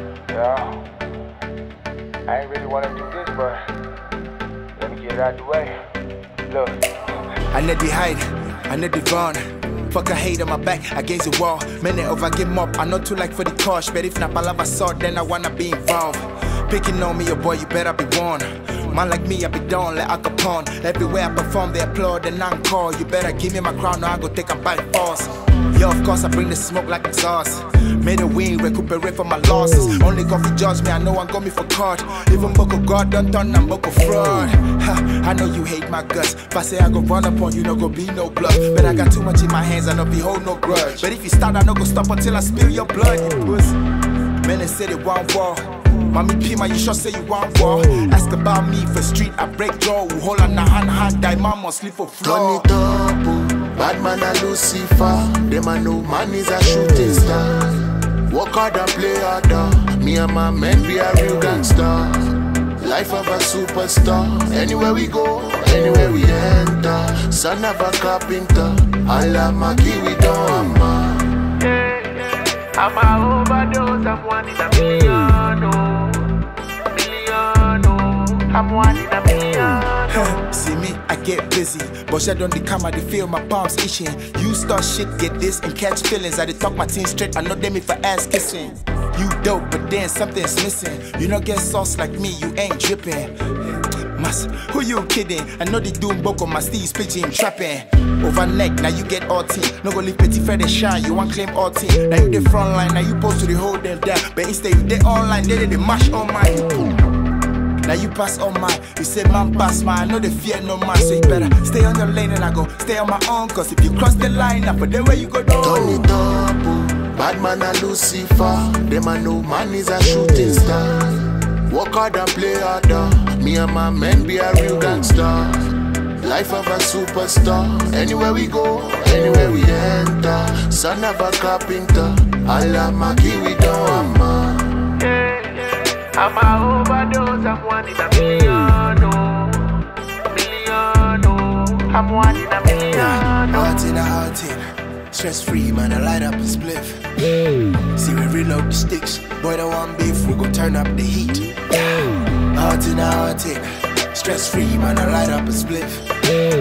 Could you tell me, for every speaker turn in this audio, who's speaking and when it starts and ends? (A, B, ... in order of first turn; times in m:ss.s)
0:00.3-0:00.6 A
0:02.3-0:03.6 A
0:04.8-0:05.7 A
0:06.5-0:06.8 A
0:07.5-0:43.8 A
0:44.4-0:52.7 A
0:52.2-1:11.4 B
1:11.6-1:16.4 C
1:16.9-1:20.4 C
1:20.1-1:47.0 A
1:47.8-1:56.1 A
1:55.6-2:14.9 B
2:15.0-2:23.7 C
2:22.9-2:27.3 A
2:27.8-2:36.4 A